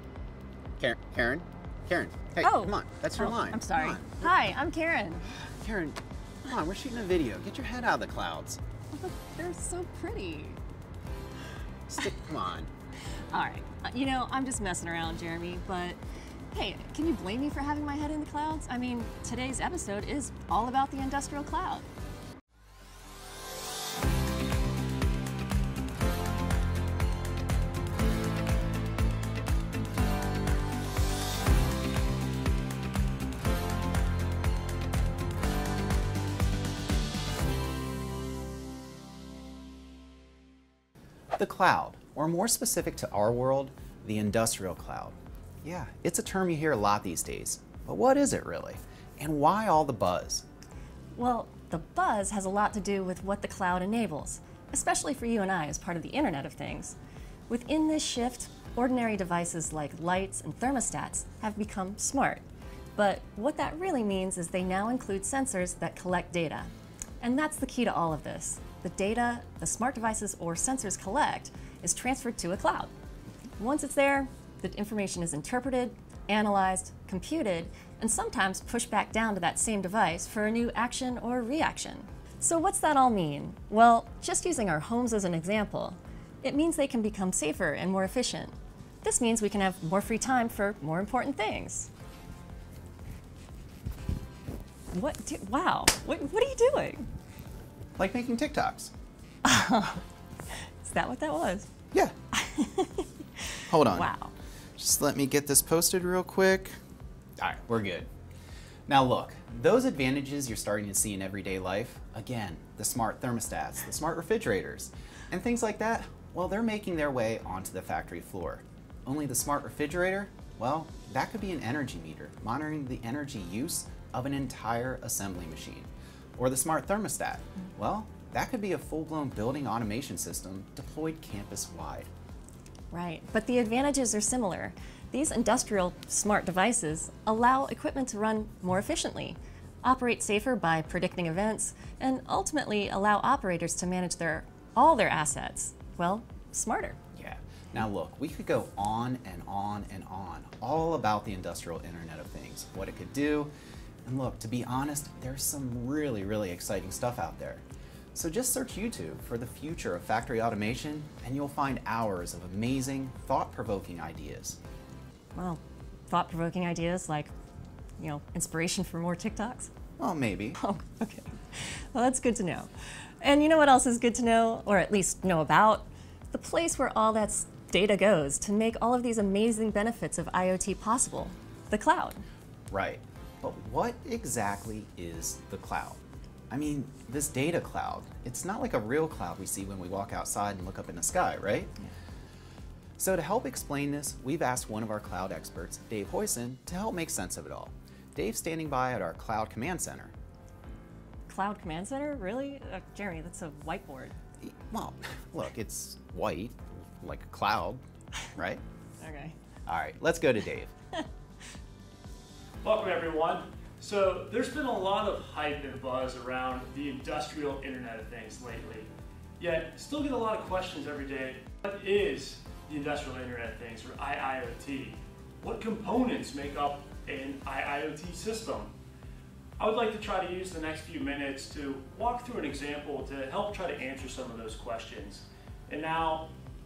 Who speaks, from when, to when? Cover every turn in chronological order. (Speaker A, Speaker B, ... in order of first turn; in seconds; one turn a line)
Speaker A: 0.8-4.3
Speaker B: 2.4-5.3
Speaker A: 5.6-8.6
Speaker B: 8.9-10.6
Speaker A: 11.9-12.7
Speaker B: 13.3-16.0
Speaker B: 16.5-21.9
Speaker A: 41.4-50.5
Speaker B: 51.1-57.0
Speaker B: 57.5-62.4
Speaker B: 63.0-72.9
Speaker B: 73.6-91.9
Speaker B: 94.9-97.0
Speaker A: 98.0-98.9
Speaker B: 99.4-100.0
Speaker B: 100.6-101.7
Speaker B: 102.3-104.3
Speaker A: 103.7-104.1
Speaker A: 104.8-106.8
Speaker A: 107.4-108.1
Speaker A: 108.9-132.1
Speaker B: 132.9-147.0
Speaker A: 147.1-153.5
Speaker A: 154.0-157.6
Speaker A: 158.1-164.6
Speaker B: 165.3-167.3
Speaker B: 168.0-169.7
Speaker A: 170.0-170.6
Speaker B: 170.6-182.2
Speaker A: 182.7-191.7
Speaker A: 193.0-200.1
Speaker B: 201.3-204.2
Speaker A: 204.4-208.6
Speaker B: 209.0-209.3
Speaker A: 209.7-210.7
Speaker C: 212.6-228.7
Speaker C: 229.6-236.3